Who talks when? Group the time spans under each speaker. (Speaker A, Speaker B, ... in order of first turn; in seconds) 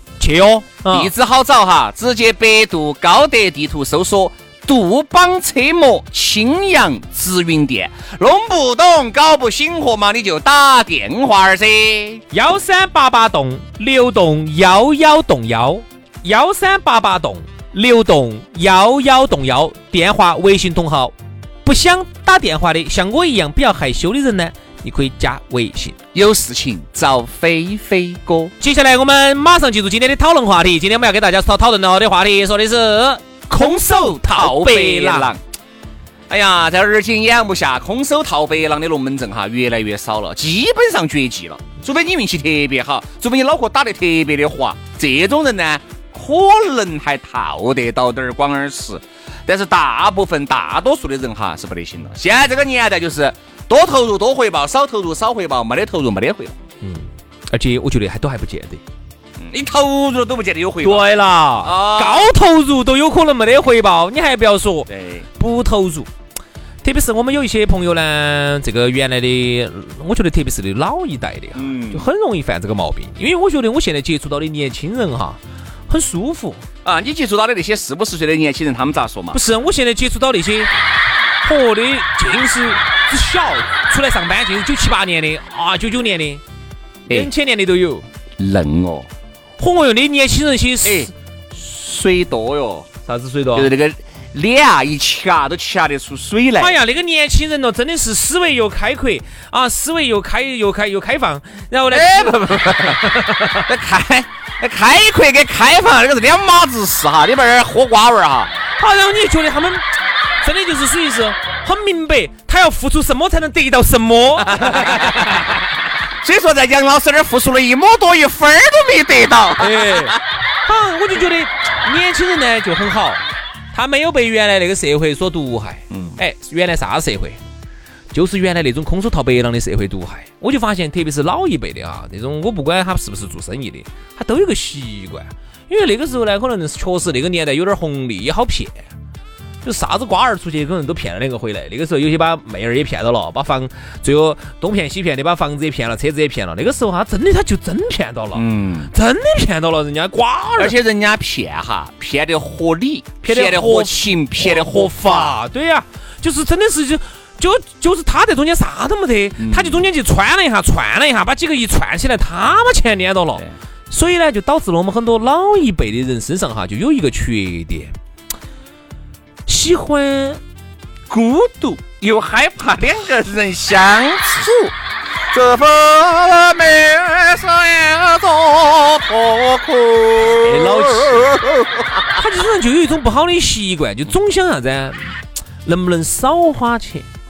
Speaker A: 0.2-1.1, 12.3-25.9, 28.6-35.3, 56.8-58.8, 60.8-66.1, 66.8-76.6, 79.3-80.7, 81.4-86.4, 87.1-88.1, 89.6-91.1, 93.1-93.7, 96.6-103.7, 108.8-109.8, 110.4-115.5, 119.6-127.4, 128.1-138.8, 139.6-150.8, 153.2-167.9, 169.5-170.4, 180.3-181.4, 182.2-187.1
Speaker B: 0.9-12.2, 26.1-28.5, 33.5-35.4, 36.3-56.6, 59.4-61.0, 61.6-62.3, 64.9-65.3, 71.6-72.0, 76.8-79.4, 88.4-89.1, 90.8-92.9, 93.5-96.8, 101.9-108.5, 114.4-115.6, 116.2-120.2, 125.9-126.2, 148.3-148.9, 150.6-155.4, 159.4-159.8, 171.1-174.7, 175.3-182.2